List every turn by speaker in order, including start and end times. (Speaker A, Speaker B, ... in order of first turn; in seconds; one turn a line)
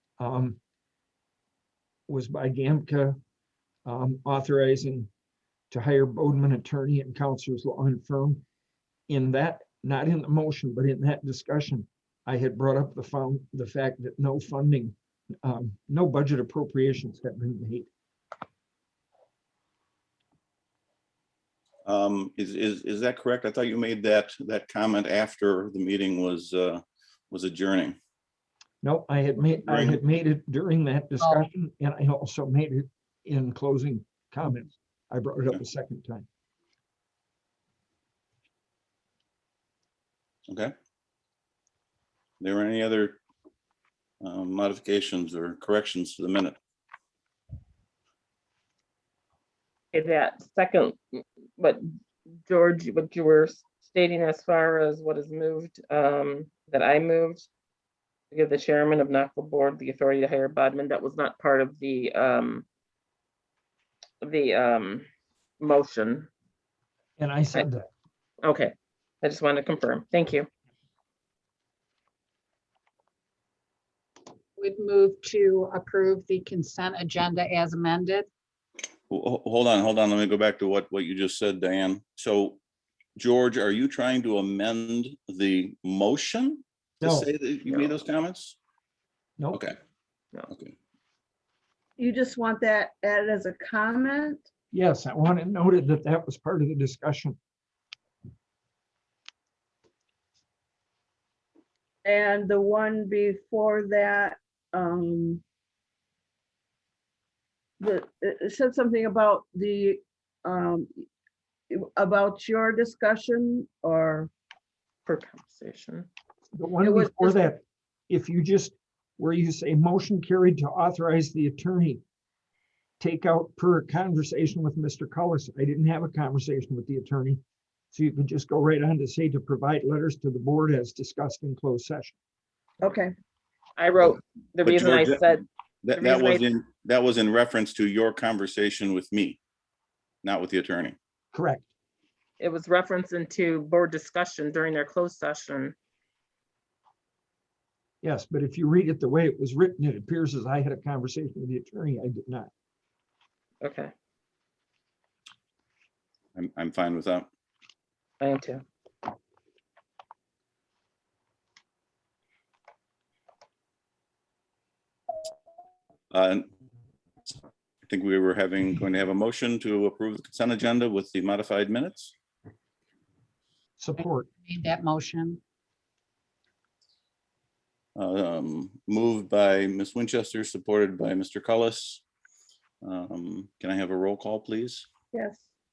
Speaker A: 0.2-0.6
Speaker A: 2.1-3.2
Speaker A: 3.9-5.1
Speaker A: 5.7-8.4
Speaker A: 9.1-17.9
Speaker B: 21.9-28.0
Speaker A: 28.8-36.3
Speaker B: 29.5-30.0
Speaker B: 40.5-40.7
Speaker B: 42.4-43.2
Speaker B: 44.2-46.6
Speaker C: 49.9-51.8
Speaker C: 52.5-57.5
Speaker C: 58.3-62.6
Speaker C: 64.2-65.1
Speaker C: 65.6-66.3
Speaker A: 67.2-67.9
Speaker C: 68.4-70.5
Speaker D: 74.6-78.3
Speaker B: 79.1-82.6
Speaker B: 83.2-88.6
Speaker A: 87.0-87.3
Speaker C: 87.7-88.0
Speaker B: 90.5-90.8
Speaker E: 92.0-94.5
Speaker A: 94.7-97.4
Speaker E: 102.0-105.4
Speaker E: 107.8-111.0
Speaker E: 111.7-114.3
Speaker C: 115.1-116.1
Speaker A: 116.5-122.0
Speaker C: 116.8-117.5
Speaker A: 123.0-127.4
Speaker A: 127.9-132.2
Speaker E: 132.8-133.1
Speaker C: 133.8-136.5
Speaker B: 134.6-139.4
Speaker B: 140.2-141.0
Speaker A: 141.3-141.7
Speaker C: 142.4-145.8
Speaker A: 148.0-152.5
Speaker C: 153.6-153.9
Speaker B: 156.4-157.3
Speaker C: 158.2-158.7
Speaker B: 166.1-166.5
Speaker B: 167.9-172.1
Speaker A: 173.8-174.3
Speaker D: 174.0-175.4
Speaker B: 178.0-182.0
Speaker B: 182.8-184.9
Speaker E: 185.1-185.5